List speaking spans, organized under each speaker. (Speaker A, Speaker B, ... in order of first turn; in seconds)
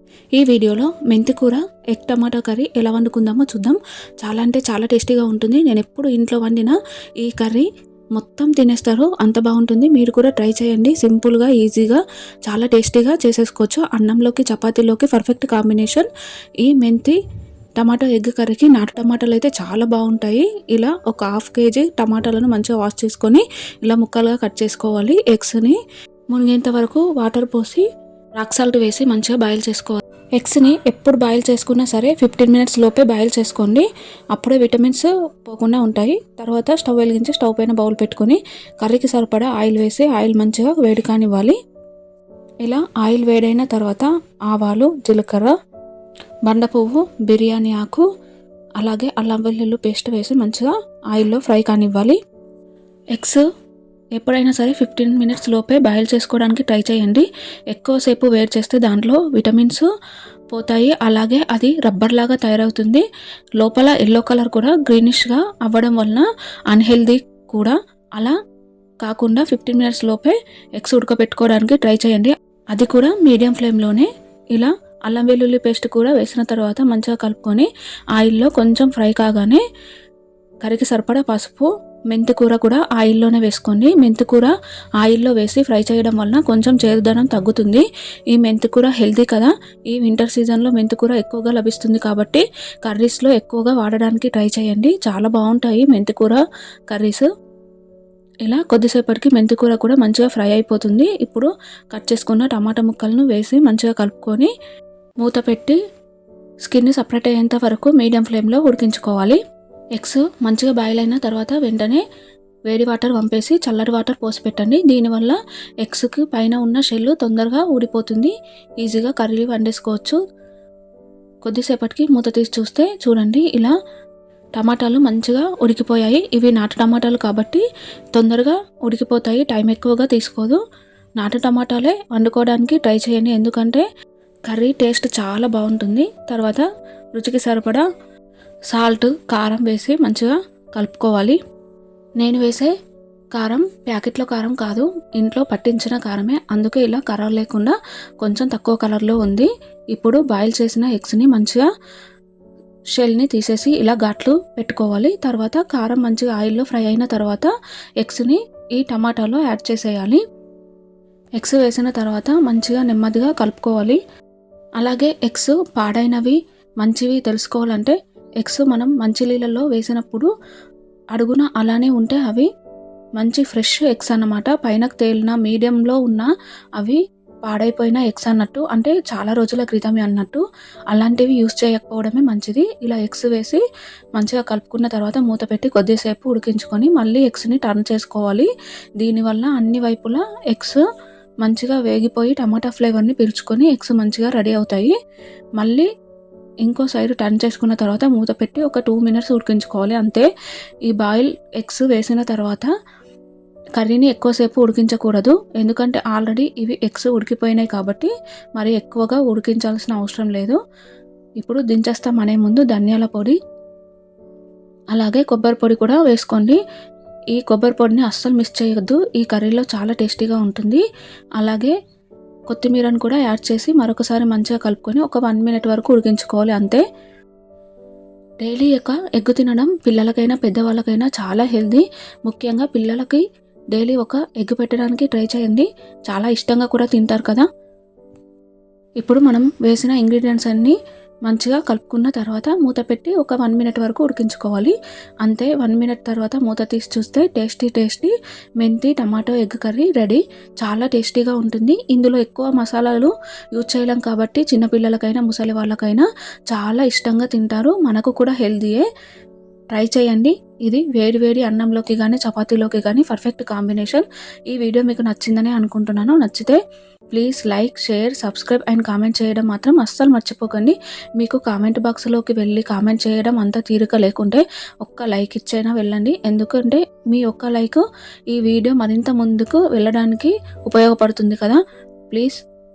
Speaker A: 0.4-16.1, 16.6-17.2, 17.8-25.8, 26.3-27.9, 28.4-41.6, 42.6-45.5, 46.5-48.1, 48.8-52.2, 53.1-53.5, 54.2-59.9, 60.5-63.0, 63.6-68.3, 69.0-79.6, 80.6-97.3, 98.5-104.5, 105.2-105.8, 106.7-109.4, 110.0-112.0, 112.7-120.2, 121.4-123.8, 124.6-127.6, 128.2-130.6, 131.2-133.8, 134.5-136.6, 137.2-137.8, 138.7-141.4, 142.2-142.7, 143.3-151.7, 153.0-160.2, 161.4-164.0, 164.8-170.3, 171.2-172.5, 173.2-183.6, 184.2-188.5, 189.0-190.8, 191.4-194.9, 195.6-195.9, 196.7-200.3, 200.9-202.7, 203.8-210.6, 211.4-213.4, 214.9-216.6, 217.4-220.8, 221.4-221.8, 222.5-226.8, 228.4-233.2, 233.7-237.5, 239.0-240.8, 241.3-258.9, 259.7-266.6, 267.1-281.6, 282.1-282.4